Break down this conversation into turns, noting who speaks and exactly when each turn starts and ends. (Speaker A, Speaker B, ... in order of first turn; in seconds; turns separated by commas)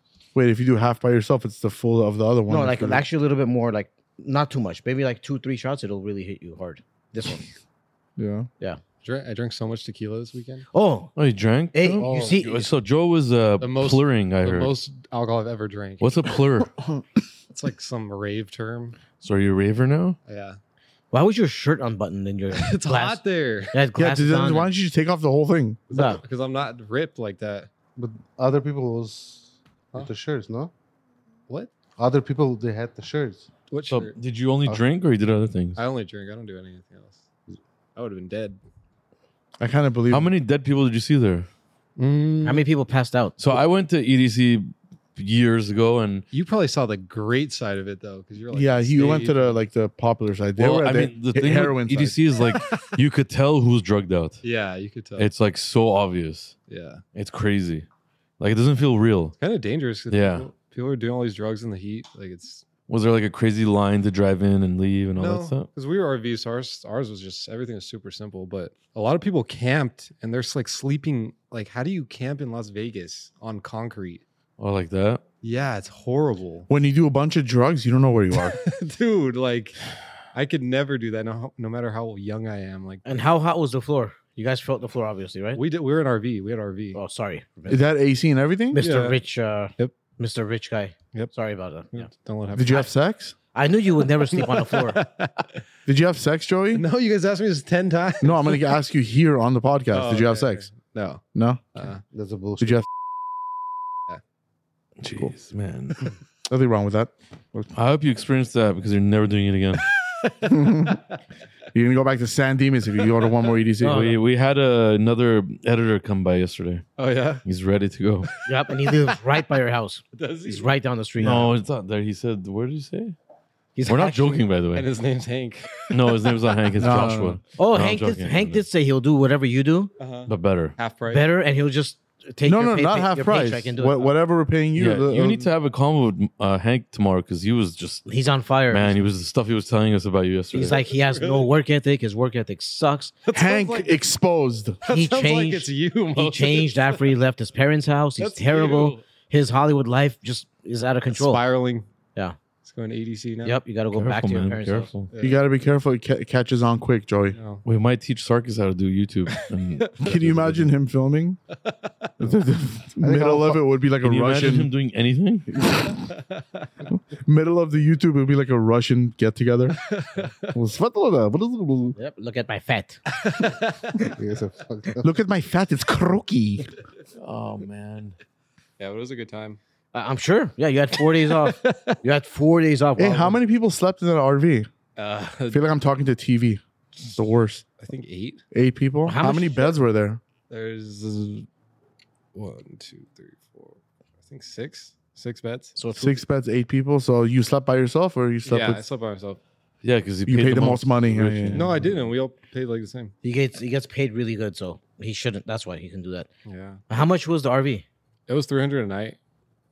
Speaker A: 0.3-3.0, Speaker B: 2.5-7.4, Speaker A: 8.2-8.5, Speaker C: 9.0-10.7, Speaker B: 10.7-11.1, Speaker D: 11.2-14.7, Speaker B: 11.7-12.7, Speaker E: 12.0-12.4, Speaker C: 13.6-16.4, Speaker D: 16.0-16.7, Speaker C: 17.5-19.0, Speaker D: 19.2-20.2, Speaker C: 20.2-20.6, Speaker B: 21.1-24.7, Speaker C: 22.5-23.8, Speaker A: 23.9-25.9, Speaker B: 25.9-26.2, Speaker C: 25.9-27.7, Speaker E: 27.9-30.7, Speaker E: 32.0-33.5, Speaker C: 33.7-34.1, Speaker D: 33.9-35.8, Speaker C: 35.8-37.2, Speaker C: 38.0-38.6, Speaker A: 39.6-40.3, Speaker D: 40.1-41.5, Speaker C: 42.0-42.6, Speaker B: 42.4-43.4, Speaker D: 43.4-46.2, Speaker C: 46.3-49.6, Speaker A: 48.5-52.2, Speaker D: 50.6-54.4, Speaker C: 52.4-53.0, Speaker C: 54.4-55.3, Speaker D: 55.2-56.5, Speaker C: 56.7-57.0, Speaker D: 57.1-57.9, Speaker D: 58.4-59.4, Speaker C: 59.4-62.6, Speaker D: 60.1-60.5, Speaker D: 62.9-65.7, Speaker C: 65.2-74.2, Speaker D: 74.6-75.2, Speaker C: 75.4-76.7, Speaker A: 76.7-78.6, Speaker C: 78.4-79.8, Speaker C: 80.3-83.0, Speaker B: 83.0-85.6, Speaker C: 85.5-87.0, Speaker B: 86.9-87.8, Speaker A: 87.7-88.9, Speaker B: 88.7-92.1, Speaker C: 88.8-89.2, Speaker C: 91.9-92.9, Speaker A: 92.5-93.3, Speaker B: 93.5-95.0, Speaker C: 94.0-95.5, Speaker A: 95.8-96.8, Speaker C: 96.7-98.7, Speaker A: 98.2-100.7, Speaker C: 99.9-101.2, Speaker A: 101.3-101.7, Speaker C: 101.7-102.0, Speaker E: 102.1-102.8, Speaker A: 102.6-102.8, Speaker D: 105.0-106.0, Speaker A: 106.5-107.7, Speaker D: 107.7-109.9, Speaker C: 109.8-111.2, Speaker A: 110.4-111.0, Speaker A: 111.7-114.2, Speaker B: 113.8-114.2, Speaker D: 113.8-116.8, Speaker C: 117.0-117.4, Speaker D: 117.4-118.3, Speaker C: 118.3-119.2, Speaker B: 118.4-121.5, Speaker C: 120.1-120.7, Speaker D: 121.2-123.1, Speaker B: 123.8-124.4, Speaker D: 123.8-124.9, Speaker C: 124.7-126.9, Speaker D: 125.9-128.6, Speaker A: 126.8-127.4, Speaker B: 127.5-129.9, Speaker C: 130.0-131.3, Speaker D: 130.3-130.8, Speaker B: 131.1-134.1, Speaker A: 132.4-135.5, Speaker D: 134.8-138.1, Speaker B: 138.1-139.0, Speaker D: 138.7-140.8, Speaker B: 140.5-143.1, Speaker C: 140.7-141.5, Speaker C: 143.2-144.0, Speaker A: 143.3-144.8, Speaker C: 144.8-147.1, Speaker B: 144.9-151.4, Speaker C: 148.2-149.0, Speaker C: 151.1-151.8, Speaker C: 152.6-153.6, Speaker B: 153.4-154.9, Speaker D: 153.9-155.1, Speaker C: 155.1-155.4, Speaker A: 155.2-157.4, Speaker C: 157.3-157.6, Speaker D: 157.6-160.7, Speaker C: 159.7-160.0, Speaker A: 160.0-161.4, Speaker C: 161.6-161.9, Speaker A: 162.2-164.7, Speaker E: 163.0-163.6, Speaker D: 164.0-165.5, Speaker A: 165.5-166.1, Speaker C: 165.9-166.7, Speaker A: 166.9-169.8, Speaker C: 169.9-170.6, Speaker A: 170.5-172.0, Speaker B: 171.9-173.0, Speaker C: 173.2-174.1, Speaker E: 174.2-175.1, Speaker A: 175.0-176.7, Speaker D: 177.2-178.2, Speaker C: 178.8-179.6, Speaker B: 179.9-183.4, Speaker C: 181.2-182.0, Speaker A: 183.0-184.7, Speaker C: 184.9-185.6, Speaker A: 185.5-187.6, Speaker C: 187.8-188.4, Speaker A: 188.5-190.2, Speaker B: 189.0-189.7, Speaker C: 190.5-191.5, Speaker C: 192.3-195.8, Speaker B: 195.8-196.2, Speaker A: 195.9-198.8, Speaker C: 198.4-199.4, Speaker D: 199.8-202.0, Speaker A: 200.2-201.7, Speaker C: 201.5-203.1, Speaker B: 203.2-206.3, Speaker C: 206.4-206.8, Speaker B: 206.9-207.8, Speaker C: 208.3-209.2